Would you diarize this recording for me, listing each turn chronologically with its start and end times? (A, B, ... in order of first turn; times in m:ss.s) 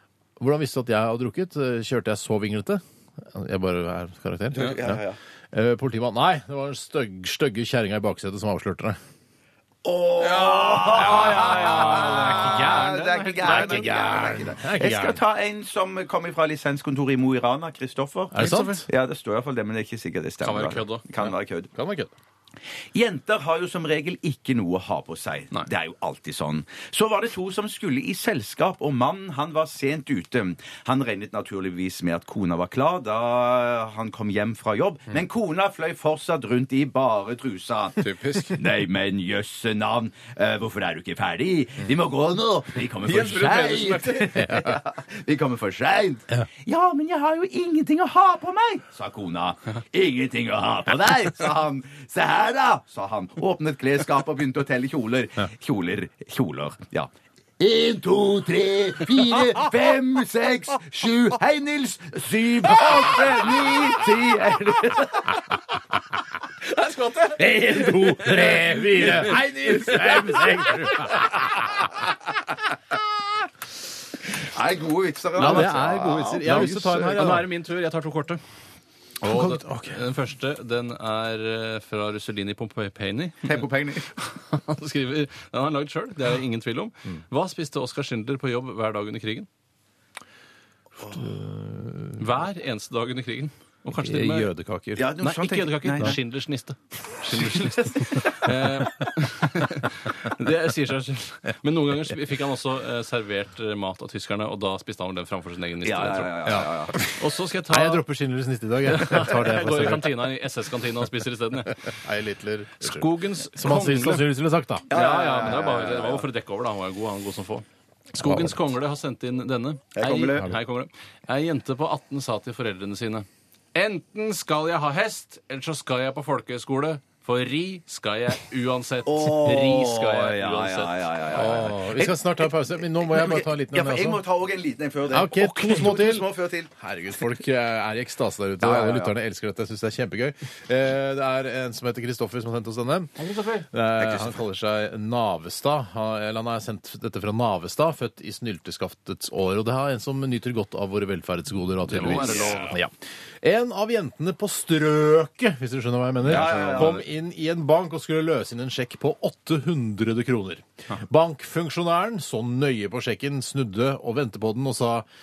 0:00.4-0:05.0 A
0:04.5-0:05.2 B
0:05.5-0:09.0 A
0:09.8-0:21.7 B
0:10.2-0:14.2 C
0:10.9-0:15.2 A
0:18.3-0:18.8 A
0:18.4-0:18.8 C
0:20.4-0:21.0 C
0:21.7-0:22.1 A
0:22.9-1:05.4 B
0:38.0-0:38.6 C
0:43.0-0:44.5 C
0:44.4-0:44.8 A
1:06.6-1:11.3 C
1:07.4-1:11.7 A
1:14.4-1:17.2 B
1:15.4-1:17.5 A
1:15.4-1:15.7 C
1:16.4-1:18.4 C
1:19.2-1:29.5 C
1:19.2-1:20.0 A
1:23.4-1:24.1 B
1:31.1-1:32.3 A
1:32.2-1:34.5 C
1:34.0-1:35.1 A
1:35.0-1:36.2 B
1:35.2-1:48.0 C
1:45.8-1:47.0 B
1:46.4-1:50.3 A
1:48.8-1:51.9 C
1:51.9-1:54.9 A
1:52.8-1:54.3 C
1:54.9-2:11.1 C
1:54.9-1:56.3 B
1:58.2-1:58.6 A
1:59.9-2:00.5 B
2:09.0-2:16.7 B
2:11.3-2:14.2 A
2:15.1-2:23.1 A
2:18.6-2:19.1 B
2:23.2-2:23.7 C
2:23.6-2:45.0 A
2:24.0-2:24.4 B
2:31.9-2:32.8 C
2:32.1-2:32.6 B
2:36.2-2:37.0 C
2:36.2-2:37.0 B